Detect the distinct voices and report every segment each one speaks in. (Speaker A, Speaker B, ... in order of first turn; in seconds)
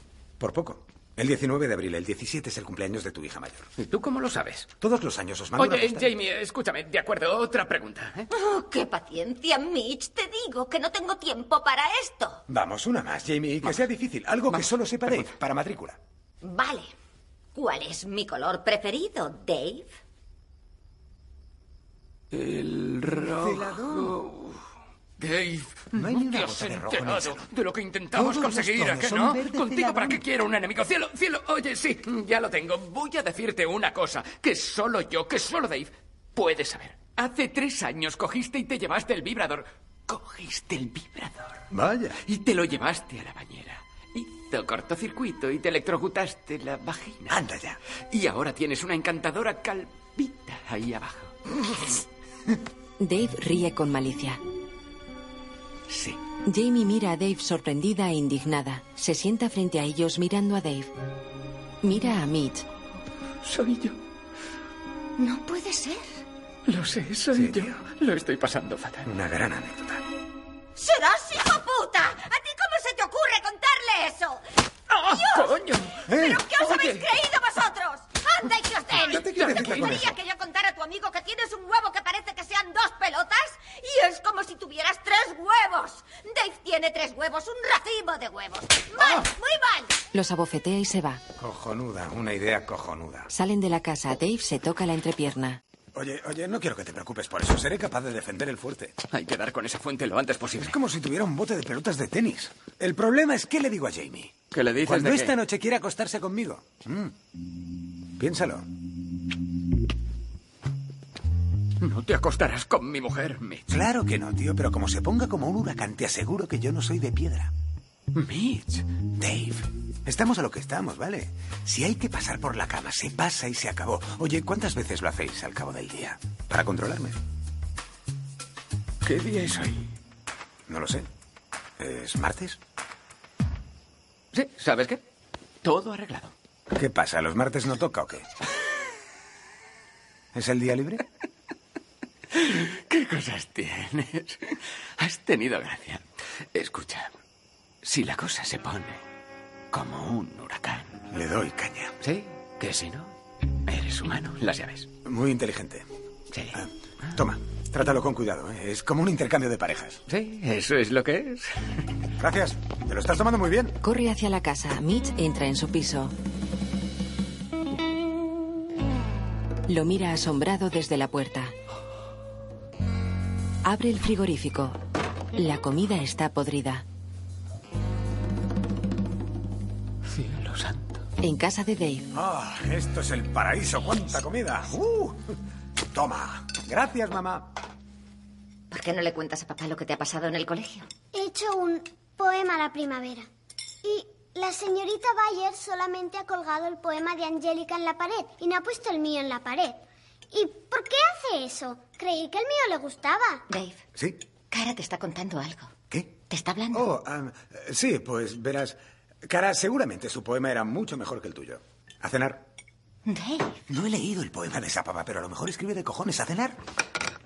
Speaker A: 0.4-3.7, 4.8-6.1, 12.5-16.0, 23.2-24.2, 25.9-27.5, 28.1-30.2, 41.7-42.2, 47.3-47.8, 67.3-67.7, 69.0-70.0, 76.1-76.4, 79.0-80.1, 91.4-93.3, 95.9-99.0, 100.5-107.1, 108.2-108.7, 113.7-117.5, 119.2-127.2, 130.7-131.1, 131.8-132.6, 136.7-138.3, 140.3-141.0, 151.1-151.9, 155.0-155.8, 156.5-160.0, 162.2-163.8, 182.1-185.2, 185.9-187.5, 203.9-204.2, 205.9-206.2, 206.7-212.4, 213.7-216.6
Speaker B: 3.8-4.7, 5.6-8.3, 14.5-15.3, 22.3-24.6, 25.2-41.6, 42.2-47.4, 48.1-51.3, 55.9-56.2, 63.4-64.0, 66.7-69.1, 74.9-77.1, 79.0-80.1, 99.1-100.8, 104.5-105.4, 111.8-113.7, 118.1-118.8, 129.0-129.9, 134.3-135.0, 135.6-136.3, 142.3-147.1, 147.8-149.0, 149.7-151.0, 152.0-153.1, 153.7-154.9, 156.3-156.6, 160.1-161.8, 180.1-181.0
Speaker C: 8.3-12.4, 16.4-16.9, 17.5-19.9, 65.2-66.2, 70.8-74.4, 75.0-75.5, 76.1-89.9, 188.7-190.9, 203.5-203.8, 204.5-205.7, 206.3-206.9, 213.1-213.6
Speaker D: 53.0-54.4, 56.4-60.9, 61.8-62.6, 90.1-91.2, 93.3-95.6, 163.8-166.1, 169.7-171.5, 173.6-174.8, 175.3-176.8, 181.2-182.1
Speaker E: 191.1-193.3, 193.8-199.8, 200.3-203.4